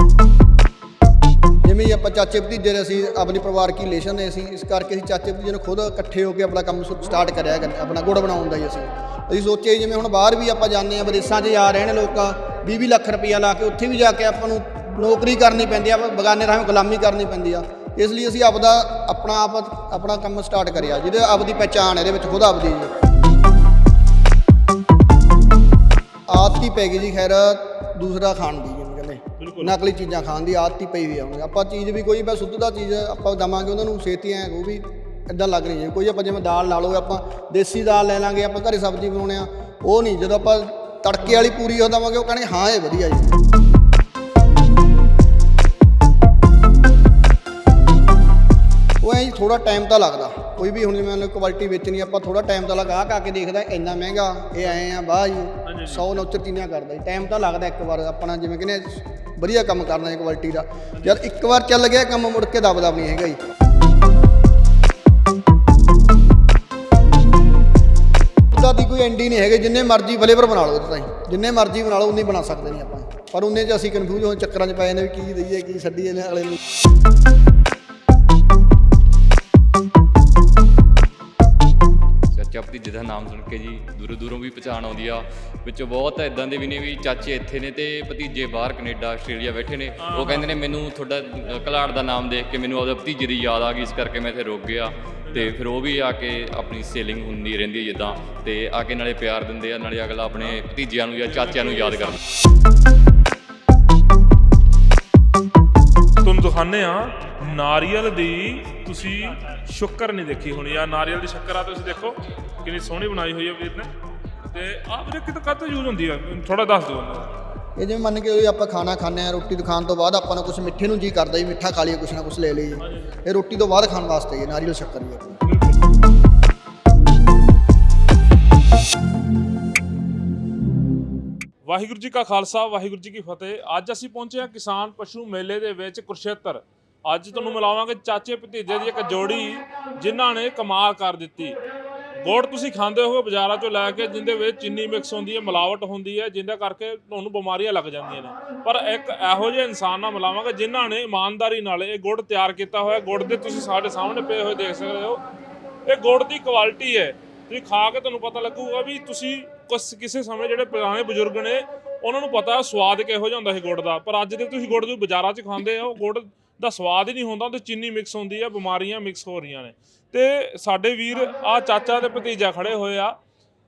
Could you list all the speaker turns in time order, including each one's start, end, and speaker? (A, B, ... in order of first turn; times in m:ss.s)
0:01.6-0:22.9 A
0:26.3-0:43.4 A
0:29.4-0:29.8 B
0:49.0-1:03.4 A
0:55.6-0:56.2 B
1:00.9-1:01.2 B
1:08.5-1:16.6 A
1:22.3-1:42.2 C
1:30.0-1:30.5 B
1:35.2-1:35.6 B
1:41.2-1:42.2 B
1:46.2-1:53.9 B
1:54.5-1:57.3 B
1:57.8-2:05.3 A
2:02.8-2:03.1 B
2:05.4-2:05.8 B
2:11.6-2:21.6 B
2:22.2-2:35.2 B
2:35.9-2:53.2 B